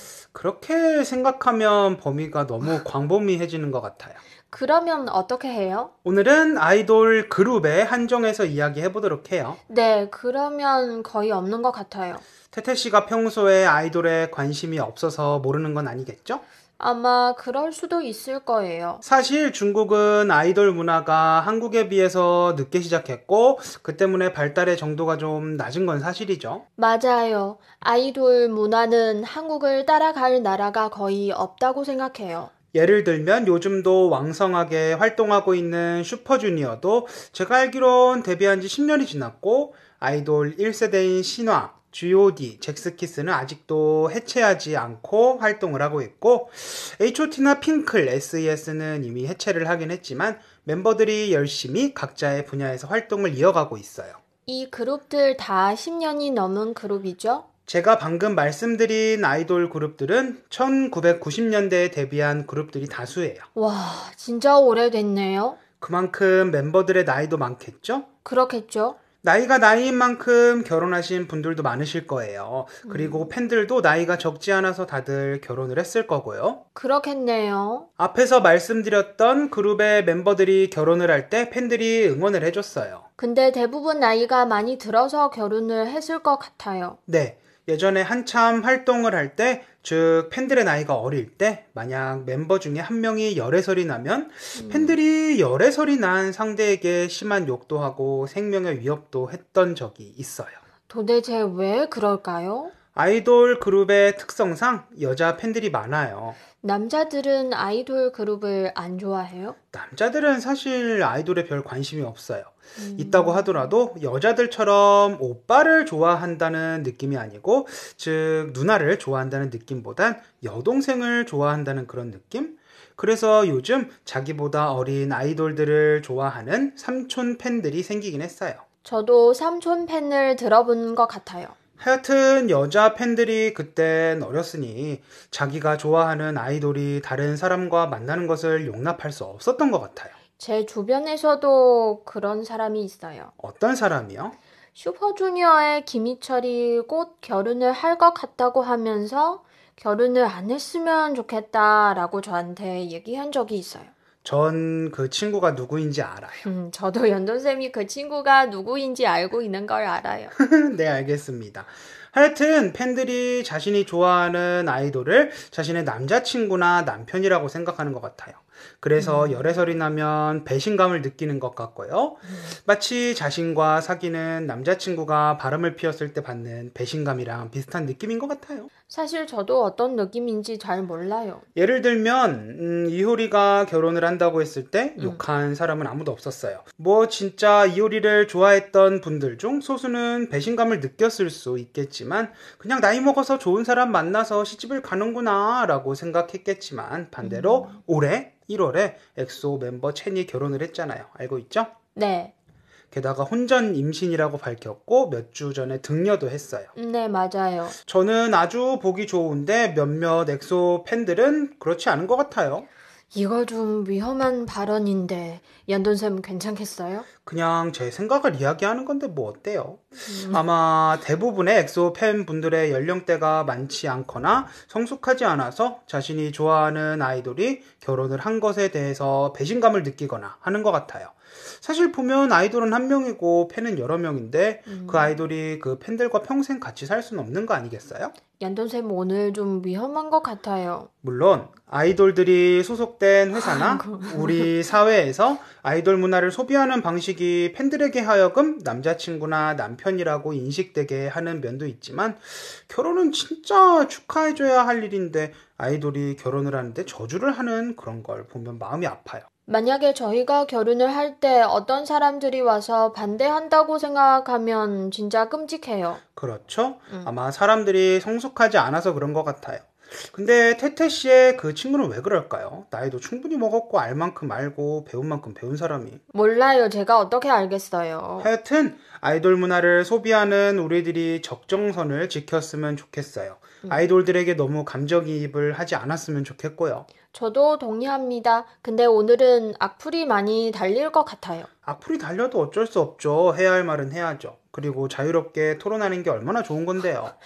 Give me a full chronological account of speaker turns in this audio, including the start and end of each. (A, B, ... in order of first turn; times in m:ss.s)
0:00.3-0:04.2 A
0:04.5-0:05.9 B
0:06.0-0:09.6 A
0:09.7-0:12.2 B
0:12.5-0:16.4 A
0:16.8-0:19.0 B
0:19.0-0:26.6 A
0:26.8-0:32.5 B
0:32.7-0:54.2 A
0:54.4-0:57.4 B
0:57.7-1:03.5 A
1:03.5-1:05.6 B
1:05.8-1:08.1 A
1:08.2-1:09.0 B
1:09.2-1:16.6 A
1:12.8-1:13.3 B
1:16.7-1:17.9 B
1:18.0-1:23.0 A
1:23.2-1:27.0 B
1:27.1-1:40.6 A
1:34.5-1:35.0 B
1:40.9-1:42.7 B
1:42.9-1:46.4 A
1:46.6-1:49.6 B
1:49.7-2:08.6 A
1:52.8-1:53.7 B
2:08.8-2:11.5 B
2:11.8-2:20.1 A
2:20.4-2:23.3 B
2:23.4-2:24.4 A
2:24.8-2:33.9 B
2:34.2-2:36.5 A
2:36.4-2:40.3 B
2:40.3-2:58.7 A
2:49.0-2:49.5 B
2:58.9-3:01.4 B
3:01.6-3:21.7 A
3:05.0-3:05.2 B
3:17.2-3:17.8 B
3:21.9-3:22.3 B
3:22.9-3:26.7 A
3:26.7-3:27.8 B
3:27.9-3:32.7 A
3:33.1-3:37.1 B
3:37.2-3:58.1 A
3:40.0-3:40.4 B
3:54.7-3:55.2 B
3:58.4-4:00.9 B
4:01.0-4:19.2 A
4:03.3-4:04.5 B
4:19.5-4:26.0 B
4:26.2-4:36.0 A
4:36.1-4:38.3 B
4:38.2-4:46.9 A
4:43.6-4:43.9 B
4:47.1-4:51.5 B
4:51.6-4:57.1 A